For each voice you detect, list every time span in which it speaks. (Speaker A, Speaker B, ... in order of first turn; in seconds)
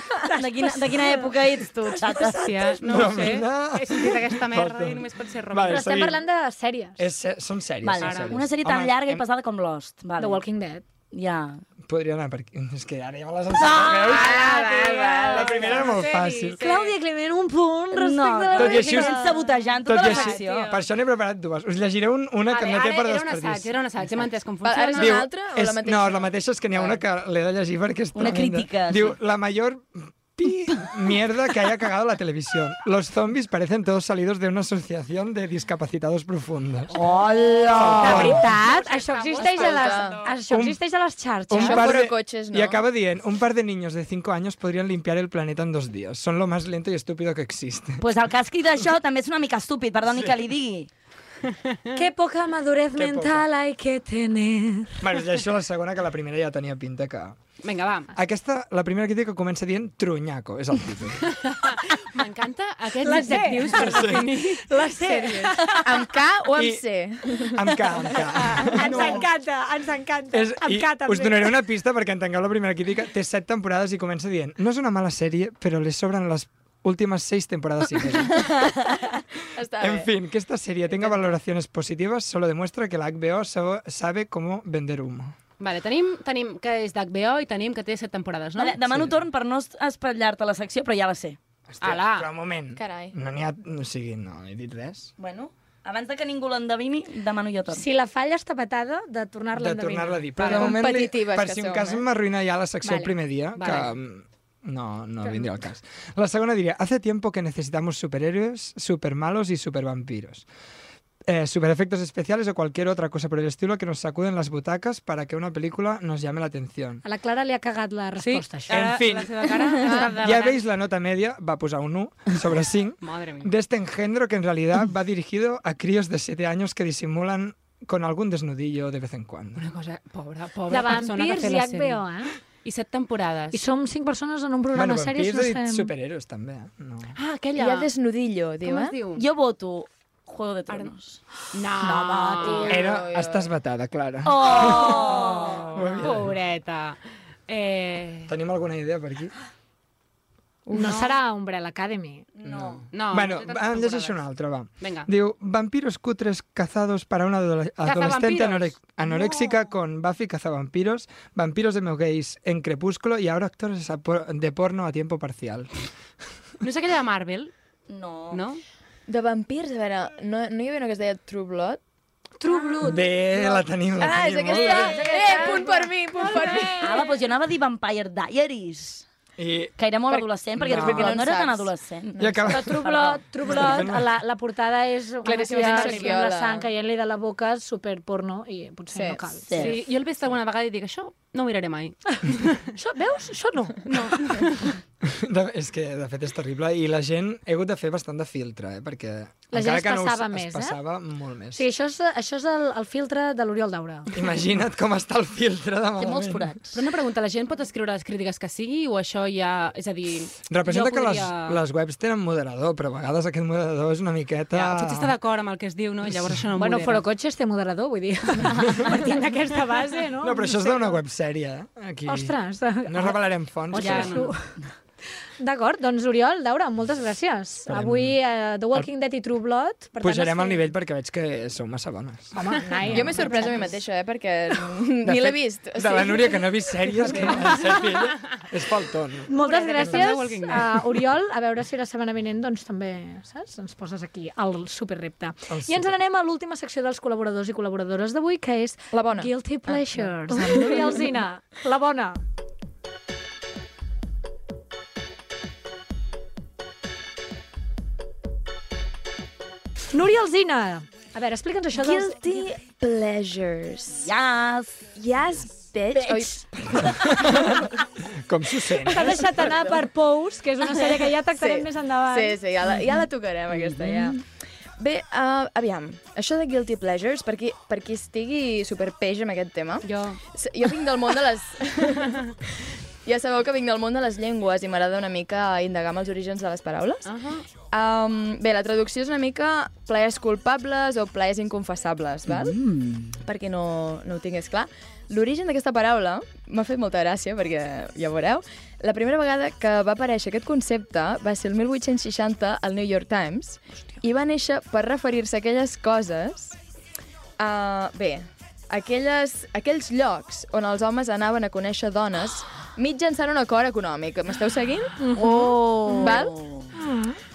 Speaker A: 0.2-1.3, 1.9-3.3, 5.7-7.0, 10.2-10.8, 16.6-19.4, 38.0-41.9, 51.9-55.0, 63.0-65.9, 68.7-71.5, 97.7-100.6, 102.8-103.1, 117.0-118.8, 130.7-132.3, 133.5-135.9, 141.8-142.7, 150.7-152.2, 172.4-173.5, 174.7-177.1, 182.5-189.5, 192.8-193.8, 199.5-200.8, 201.5-204.1, 216.6-221.0, 222.1-224.5, 225.4-230.7, 232.3-233.7, 239.3-252.2, 259.9-262.5, 265.9-266.3, 268.9-272.4, 315.0-316.1, 316.7-317.2
Speaker B: 0.3-2.5, 7.8-10.4, 11.1-11.6, 13.6-15.5, 17.9-20.7, 28.1-29.1, 37.1-38.2, 48.0-50.9, 88.6-91.4, 95.2-97.8, 139.1-141.2, 144.2-145.8, 152.4-152.8, 167.9-168.4, 175.1-175.6, 176.8-179.0, 179.8-183.2, 189.4-189.8, 206.0-206.8, 264.0-264.9, 273.5-274.2, 292.3-293.2, 315.1-316.7
Speaker C: 2.2-6.0, 8.0-8.4, 13.9-16.9, 19.9-20.8, 22.5-25.2, 38.1-40.3, 57.6-58.1, 61.4-64.7, 85.6-88.8, 91.8-92.3, 100.4-100.7, 103.6-103.9, 118.2-120.6, 123.0-123.5, 129.6-132.0, 132.6-133.6, 137.2-137.9, 138.6-139.2, 141.5-142.8, 144.4-148.3, 150.7-151.1, 152.9-154.2, 154.8-155.1, 157.8-158.8, 166.6-167.5, 168.3-168.6, 185.5-186.2, 189.5-192.6, 193.8-194.7, 206.7-211.6, 214.5-217.1, 223.7-224.3, 239.3-240.7, 279.8-280.2, 287.0-287.4
Speaker D: 2.8-6.2, 7.0-9.2, 11.8-14.5, 15.3-16.6, 18.5-19.3, 19.8-23.7, 25.0-37.0, 37.6-38.5, 40.5-40.8, 41.5-48.0, 52.9-53.5, 55.0-57.4, 58.1-61.4, 63.7-64.2, 66.5-66.8, 67.5-69.3, 70.3-78.6, 79.8-85.3, 91.7-95.1, 99.5-110.5, 111.2-117.0, 118.7-129.7, 134.7-137.2, 142.7-145.1, 145.7-146.3, 148.3-149.3, 152.4-165.7, 172.8-175.0, 179.4-179.8, 180.6-181.2, 182.2-184.1, 195.0-201.6, 204.1-206.5, 210.5-215.1, 220.2-224.2, 227.7-228.2, 230.0-233.3, 235.0-240.1, 245.5-245.9, 266.8-267.6, 268.2-269.4
Speaker E: 14.3-15.7, 24.6-26.3, 39.3-40.2, 41.6-42.8, 65.0-69.2, 78.3-78.9, 79.5-80.1, 92.8-93.1, 100.4-102.0, 137.6-139.0, 142.4-143.5, 169.1-171.8, 174.0-177.1, 180.1-182.5, 185.2-186.7, 188.9-189.7, 232.8-236.6, 248.9-251.1, 261.8-264.1, 264.9-267.7, 269.0-269.8, 270.8-274.2, 274.8-282.3, 283.0-287.1, 287.7-292.6, 293.2-306.6, 307.4-316.3